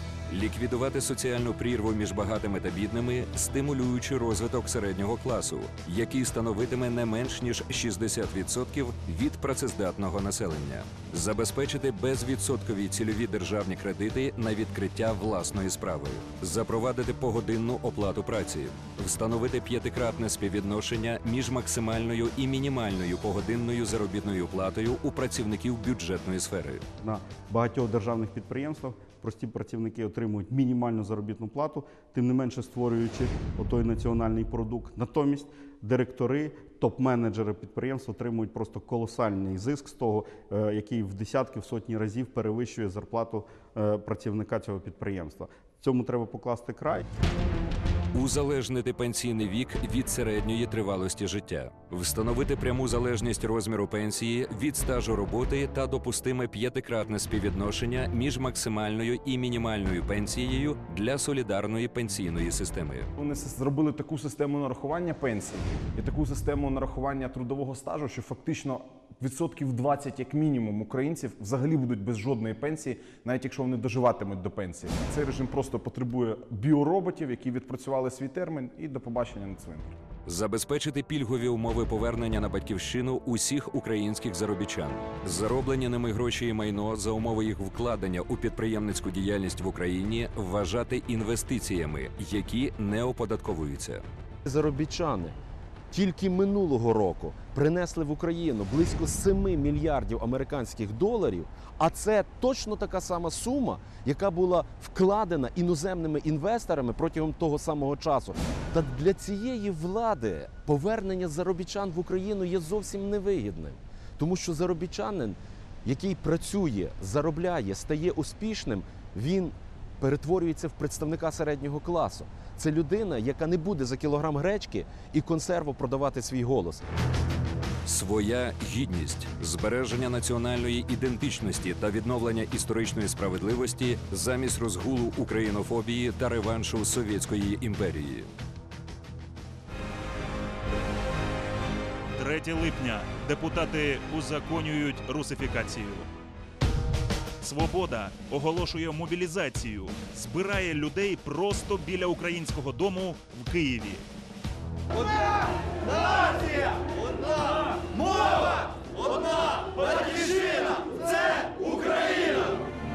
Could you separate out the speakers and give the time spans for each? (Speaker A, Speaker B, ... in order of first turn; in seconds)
Speaker A: 0.3-26.8, 48.1-63.1, 80.3-94.0, 127.8-138.3
Speaker B: 27.0-47.0
Speaker C: 63.2-80.0
Speaker D: 94.5-95.4, 95.9-126.9
Speaker E: 142.2-146.1, 147.4-154.1